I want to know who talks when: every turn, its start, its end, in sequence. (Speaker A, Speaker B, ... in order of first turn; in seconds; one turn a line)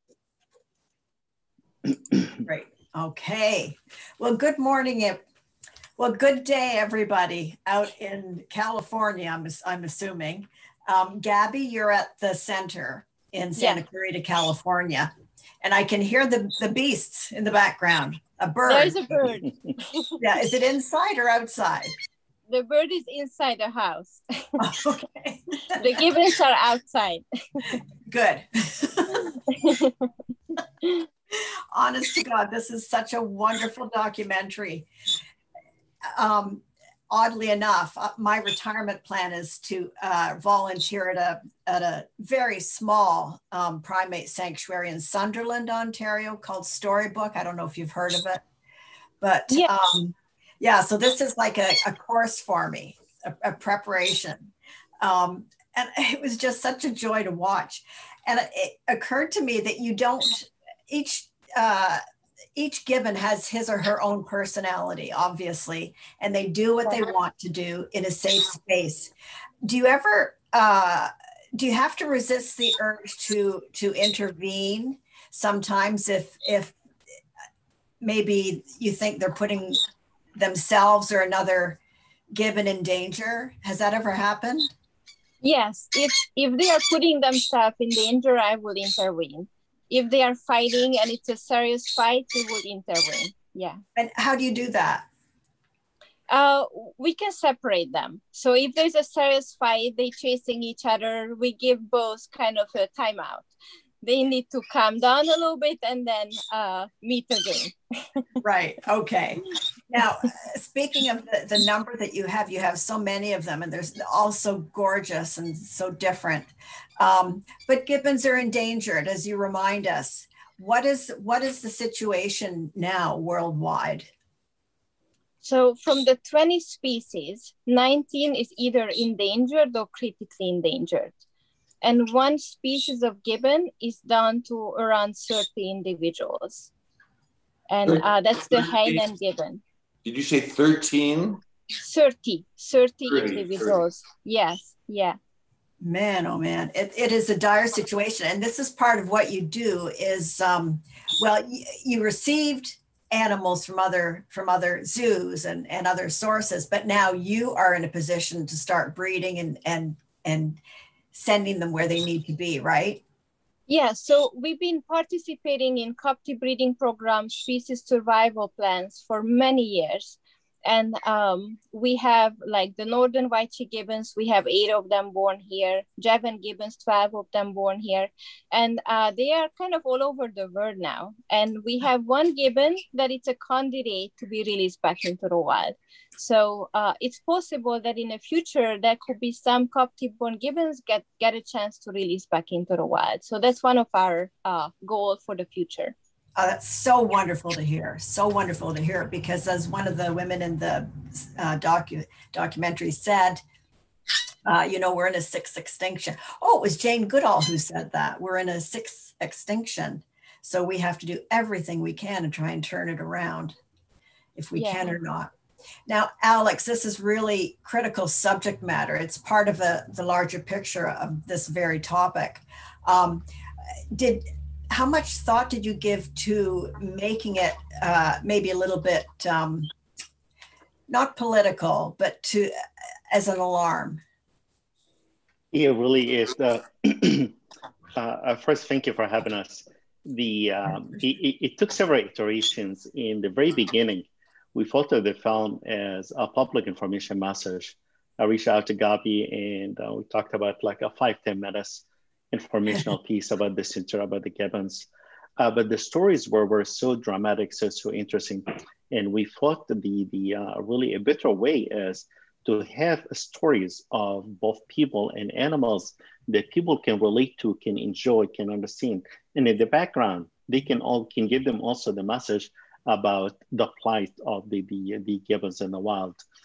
Speaker A: 2.4-5.2
Speaker A: 6.0-15.1
Speaker B: 13.6-13.8
Speaker A: 15.6-19.0
Speaker B: 18.7-20.1
Speaker A: 20.2-21.9
Speaker B: 22.5-24.2
Speaker A: 24.6-25.8
Speaker B: 25.7-27.7
Speaker A: 28.1-29.4
Speaker B: 29.5-30.1
Speaker A: 31.7-34.9
Speaker A: 36.1-48.4
Speaker A: 49.2-62.0
Speaker A: 62.5-69.1
Speaker A: 69.6-76.8
Speaker A: 78.0-79.8
Speaker A: 80.3-81.8
Speaker A: 82.3-84.7
Speaker B: 85.4-93.8
Speaker A: 94.0-95.0
Speaker B: 96.3-103.5
Speaker B: 104.0-108.2
Speaker A: 108.4-124.1
Speaker B: 125.4-131.1
Speaker B: 131.8-136.7
Speaker B: 137.7-139.6
Speaker C: 137.8-139.0
Speaker C: 140.0-141.4
Speaker B: 141.8-145.2
Speaker C: 143.1-143.8
Speaker A: 145.8-163.0
Speaker B: 163.7-195.9
Speaker A: 196.3-203.4
Speaker A: 204.4-213.6
Speaker A: 214.3-215.3
Speaker B: 214.5-214.9
Speaker A: 215.9-223.2
Speaker A: 223.9-229.7
Speaker A: 230.9-232.5
Speaker A: 233.1-234.0
Speaker D: 235.5-237.4
Speaker D: 237.9-254.9
Speaker D: 255.4-276.2